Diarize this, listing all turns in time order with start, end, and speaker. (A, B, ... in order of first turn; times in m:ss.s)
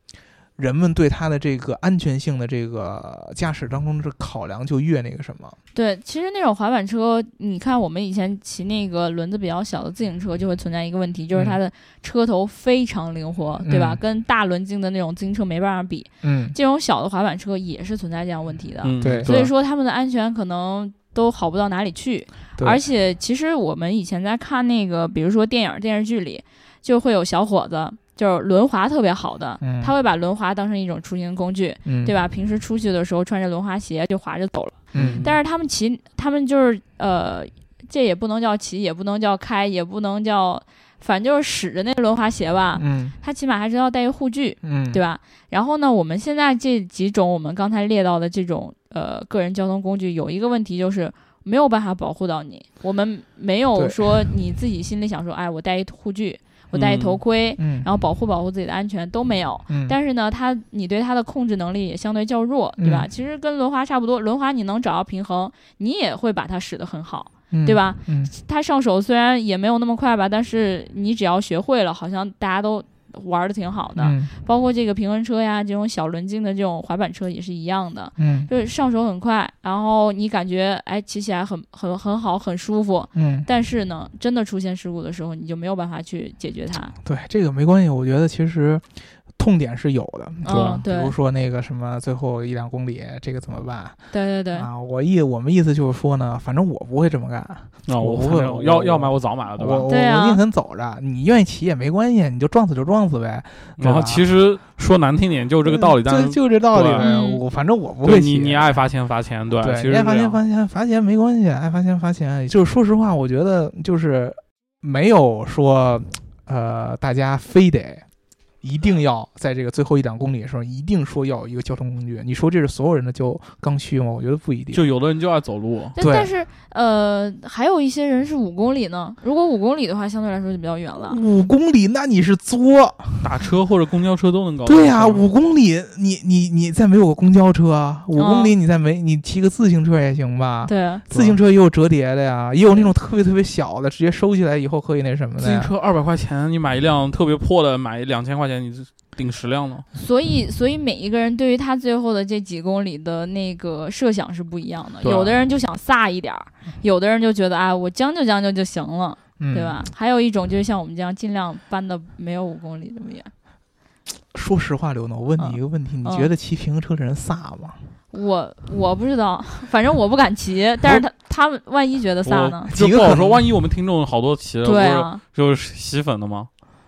0:00.6-0:05.6 A
0:05.7-1:26.9 B
0:11.3-0:11.6 A
0:13.6-0:14.0 A
0:16.2-0:16.6 A
0:18.8-0:19.5 C
0:19.0-0:19.3 A
0:22.6-0:22.8 A
0:29.6-0:29.9 A
0:31.8-0:32.1 A
0:34.9-0:35.2 A
0:34.9-0:35.4 C
0:42.8-0:43.1 A
0:44.6-0:45.0 A
0:53.8-0:54.2 A
0:56.7-0:57.2 C
0:57.6-0:57.9 A
0:59.7-1:00.0 A
1:02.8-1:03.1 A
1:07.5-1:08.3 A
1:14.0-1:14.3 A
1:18.2-1:18.5 A
1:23.1-1:23.5 A
1:27.0-1:34.0 A
1:30.4-1:31.1 B
1:30.4-1:30.8 C
1:34.1-1:34.7 B
1:34.5-1:44.2 A
1:37.9-1:39.9 C
1:39.9-1:40.4 B
1:43.8-1:47.1 C
1:45.6-1:48.8 A
1:47.0-1:47.4 B
1:48.0-1:50.4 C
1:49.6-1:58.1 A
1:58.6-2:04.9 A
2:04.7-2:06.0 C
2:06.0-2:06.3 A
2:06.0-2:11.2 B
2:11.0-2:13.4 A
2:13.2-2:15.2 C
2:14.6-2:25.7 A
2:18.1-2:18.5 B
2:20.6-2:21.0 B
2:21.1-2:21.4 C
2:25.4-2:29.9 C
2:30.0-2:43.3 B
2:35.0-2:35.4 C
2:39.4-2:39.8 A
2:44.3-2:47.8 A
2:45.4-2:46.3 B
2:48.1-2:52.7 B
2:52.2-2:56.5 C
2:52.7-2:53.4 A
2:54.6-2:55.2 B